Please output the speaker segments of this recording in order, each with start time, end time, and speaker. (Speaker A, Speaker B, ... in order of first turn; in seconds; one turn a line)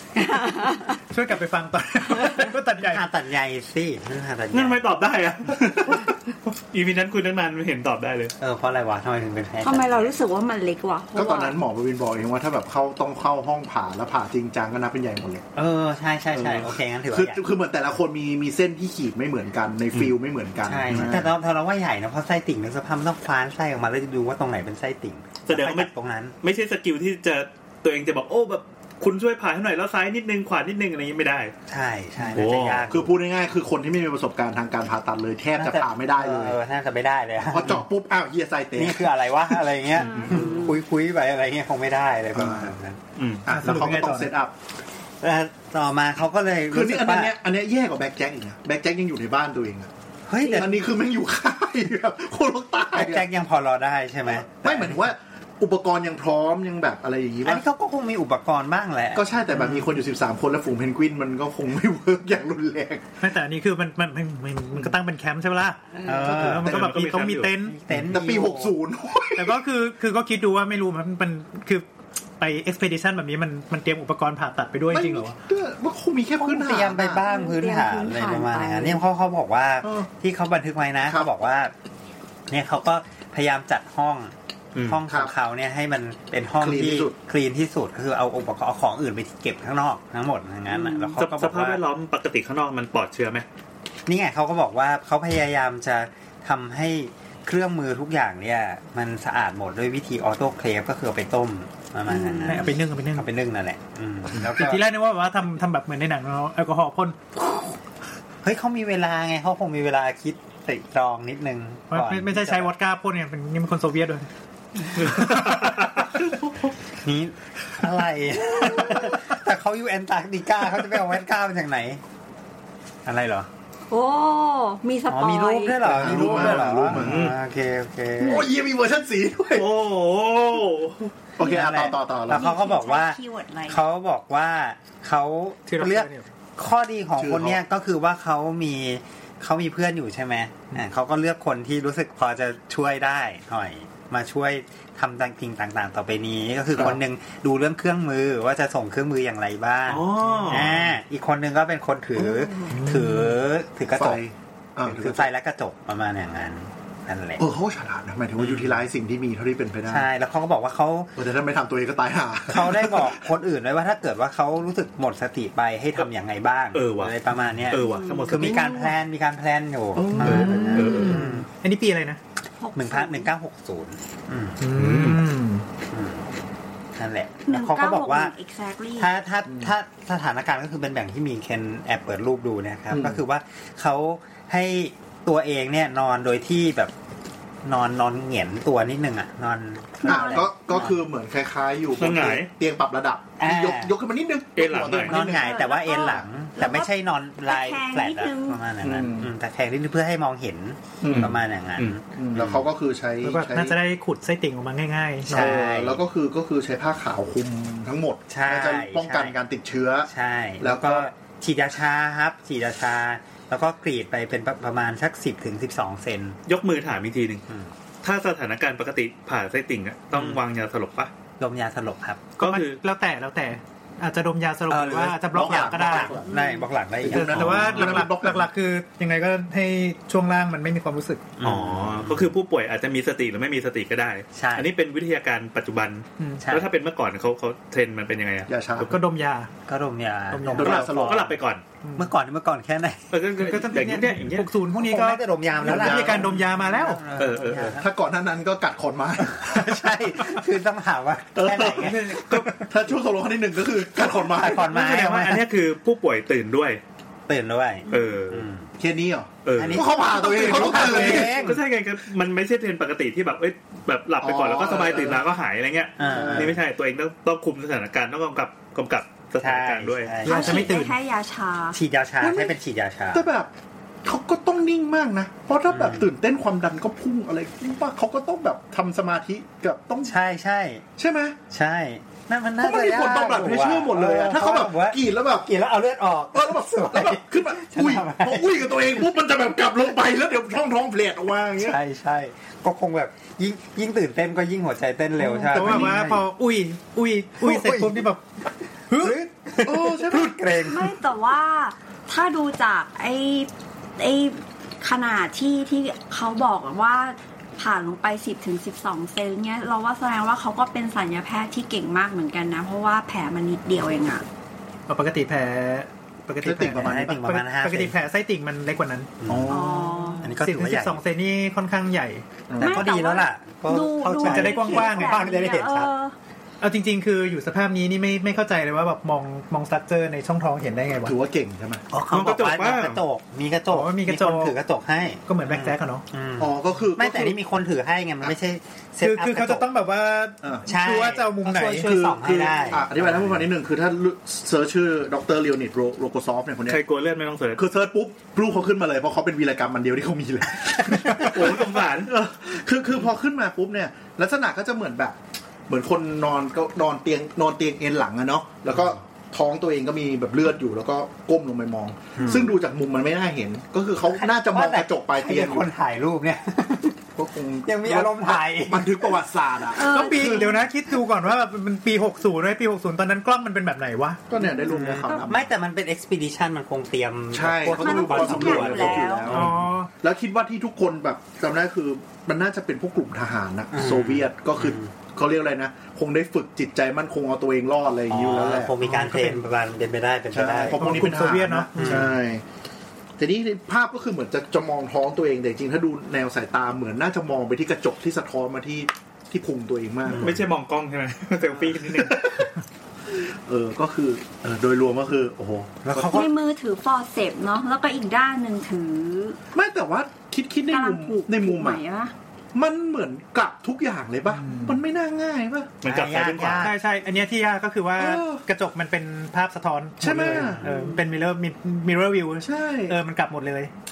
Speaker A: 0.1-1.0
Speaker B: 1.1-3.0
Speaker C: 2.8-4.8
Speaker D: 4.5-8.3
Speaker C: 8.4-10.1
Speaker A: 9.6-11.6
Speaker E: 11.1-15.4
Speaker C: 15.5-17.4
Speaker E: 16.3-21.3
Speaker C: 19.9-26.3
Speaker D: 20.9-21.2
Speaker D: 25.5-25.9
Speaker D: 26.4-31.5
Speaker C: 31.7-33.1
Speaker D: 32.3-32.9
Speaker E: 32.9-36.5
Speaker C: 35.5-37.8
Speaker E: 37.5-40.5
Speaker C: 38.7-43.0
Speaker A: 40.0-40.7
Speaker E: 42.3-42.7
Speaker D: 43.1-43.5
Speaker E: 43.4-44.5
Speaker B: 43.5-44.3
Speaker C: 43.6-43.9
Speaker C: 45.2-47.3
Speaker E: 46.7-49.9
Speaker C: 50.3-50.8
Speaker E: 50.4-53.2
Speaker C: 52.9-55.1
Speaker E: 54.2-57.6
Speaker C: 57.4-59.9
Speaker E: 59.1-63.0
Speaker B: 63.2-67.8
Speaker C: 66.0-66.8
Speaker D: 66.3-67.5
Speaker C: 67.6-68.8
Speaker E: 67.9-69.6
Speaker B: 69.3-71.8
Speaker B: 72.4-75.3
Speaker E: 74.9-77.2
Speaker C: 76.4-81.7
Speaker A: 77.2-79.0
Speaker C: 82.5-91.8
Speaker D: 84.7-85.0
Speaker E: 86.6-87.1
Speaker A: 90.8-91.2
Speaker D: 91.2-93.4
Speaker C: 94.0-104.8
Speaker A: 102.1-102.6
Speaker B: 102.5-103.3
Speaker B: 104.6-107.2
Speaker C: 108.4-112.7
Speaker B: 111.9-114.3
Speaker D: 115.0-116.5
Speaker C: 117.0-122.0
Speaker E: 118.7-119.1
Speaker C: 123.0-123.5
Speaker A: 123.9-125.9
Speaker C: 125.1-128.5
Speaker E: 125.8-127.3
Speaker D: 126.3-127.3
Speaker E: 128.2-129.7
Speaker D: 129.5-131.1
Speaker E: 131.4-132.5
Speaker C: 131.4-154.2
Speaker A: 131.5-133.8
Speaker B: 135.7-136.2
Speaker E: 137.2-137.6
Speaker D: 149.9-150.8
Speaker B: 150.2-150.9
Speaker E: 152.2-153.1
Speaker B: 152.7-153.3
Speaker E: 153.9-155.3
Speaker C: 154.8-157.4
Speaker E: 157.4-160.0
Speaker C: 158.4-158.8
Speaker C: 159.9-161.1
Speaker E: 161.2-163.2
Speaker C: 162.5-171.5
Speaker D: 166.7-168.8
Speaker A: 167.7-168.9
Speaker E: 169.9-171.3
Speaker B: 170.2-172.2
Speaker D: 170.2-171.3
Speaker A: 172.6-173.3
Speaker C: 172.7-174.6
Speaker B: 174.6-175.6
Speaker D: 174.7-175.3
Speaker C: 175.9-176.2
Speaker C: 176.9-178.3
Speaker A: 177.5-179.1
Speaker C: 179.0-186.9
Speaker E: 179.5-179.7
Speaker E: 182.9-183.2
Speaker C: 187.6-191.0
Speaker A: 190.0-190.8
Speaker E: 190.0-195.6
Speaker D: 192.0-192.5
Speaker C: 193.4-193.9
Speaker D: 194.6-195.2
Speaker C: 195.0-202.7
Speaker A: 195.2-196.9
Speaker A: 197.4-198.6
Speaker E: 198.8-199.3
Speaker E: 201.0-201.3
Speaker D: 201.1-202.0
Speaker E: 202.2-203.8
Speaker B: 203.2-205.6
Speaker C: 205.3-206.0
Speaker E: 205.3-210.1
Speaker C: 208.3-209.3
Speaker C: 210.1-216.4
Speaker E: 210.6-211.1
Speaker D: 216.4-217.4
Speaker D: 218.0-221.1
Speaker C: 220.1-220.4
Speaker C: 221.4-222.3
Speaker D: 222.4-222.8
Speaker B: 222.4-226.2
Speaker C: 224.7-228.1
Speaker E: 225.3-226.3
Speaker A: 226.3-226.6
Speaker E: 227.0-228.5
Speaker B: 227.1-231.3
Speaker C: 231.4-232.3
Speaker D: 231.4-238.9
Speaker C: 234.3-234.7
Speaker B: 236.2-236.4
Speaker C: 236.4-236.7
Speaker E: 238.5-238.9
Speaker B: 238.8-239.5
Speaker C: 239.7-241.3
Speaker B: 240.3-240.8
Speaker E: 240.5-241.3
Speaker D: 240.6-241.6
Speaker B: 241.8-242.1
Speaker C: 241.9-243.0
Speaker D: 243.1-244.5
Speaker B: 243.3-247.0
Speaker C: 244.8-247.9
Speaker E: 245.6-246.3
Speaker D: 247.2-247.7
Speaker E: 247.7-249.7
Speaker C: 249.2-252.6
Speaker E: 251.4-254.7
Speaker D: 251.4-252.7
Speaker C: 254.2-255.5
Speaker D: 254.6-256.8
Speaker C: 257.3-258.7
Speaker D: 257.9-258.4
Speaker E: 258.8-261.5
Speaker D: 259.4-270.1
Speaker C: 259.5-261.6
Speaker E: 264.2-265.2
Speaker C: 266.0-266.6
Speaker E: 266.0-266.6
Speaker C: 269.4-270.7
Speaker A: 270.2-271.8
Speaker B: 270.2-270.9
Speaker C: 271.7-273.3
Speaker E: 272.2-272.6
Speaker E: 273.1-273.5
Speaker E: 274.0-280.1
Speaker C: 275.7-276.1
Speaker C: 280.0-280.8
Speaker E: 281.0-281.4
Speaker C: 281.5-289.0
Speaker E: 282.6-285.5
Speaker E: 286.3-291.8
Speaker C: 291.6-296.2
Speaker B: 295.2-298.2
Speaker E: 295.4-296.0
Speaker C: 297.4-298.1
Speaker B: 298.9-299.2
Speaker C: 298.9-300.9
Speaker E: 299.6-300.3
Speaker A: 300.5-314.2
Speaker B: 314.9-322.2
Speaker E: 316.4-317.1
Speaker C: 316.6-317.9
Speaker C: 319.2-319.6
Speaker E: 319.3-319.7
Speaker A: 319.5-320.2
Speaker C: 320.2-321.0
Speaker E: 322.5-322.9
Speaker C: 322.6-325.9
Speaker A: 322.6-326.1
Speaker B: 324.2-325.2
Speaker B: 326.6-331.1
Speaker E: 331.0-331.8
Speaker C: 331.9-339.7
Speaker D: 332.0-333.0
Speaker B: 333.7-334.6
Speaker B: 335.3-336.0
Speaker E: 336.4-337.4
Speaker B: 339.0-341.9
Speaker C: 340.6-343.5
Speaker E: 341.8-346.8
Speaker D: 346.7-347.6
Speaker E: 347.6-355.2
Speaker C: 351.0-351.3
Speaker D: 351.2-352.1
Speaker E: 355.7-365.7
Speaker C: 362.2-362.5
Speaker C: 364.1-367.0
Speaker E: 367.1-370.6
Speaker C: 367.6-369.2
Speaker A: 369.7-370.6
Speaker B: 369.8-374.2
Speaker E: 374.3-375.5
Speaker A: 374.4-375.3
Speaker C: 374.7-379.6
Speaker E: 377.3-388.7
Speaker A: 377.6-379.3
Speaker B: 379.3-379.9
Speaker C: 383.7-384.9
Speaker C: 388.1-391.1
Speaker B: 388.8-389.4
Speaker E: 390.3-392.4
Speaker B: 390.7-392.1
Speaker C: 391.8-392.1
Speaker E: 393.2-400.4
Speaker D: 400.1-402.5
Speaker E: 403.1-406.3
Speaker C: 405.8-406.3
Speaker A: 406.1-409.4
Speaker E: 409.5-411.8
Speaker A: 410.7-412.1
Speaker E: 412.5-415.7
Speaker B: 414.3-414.8
Speaker D: 415.8-416.7
Speaker C: 415.8-416.8
Speaker B: 416.6-423.7
Speaker E: 418.0-418.4
Speaker E: 420.0-420.6
Speaker C: 420.2-420.6
Speaker A: 420.6-421.0
Speaker E: 422.4-422.9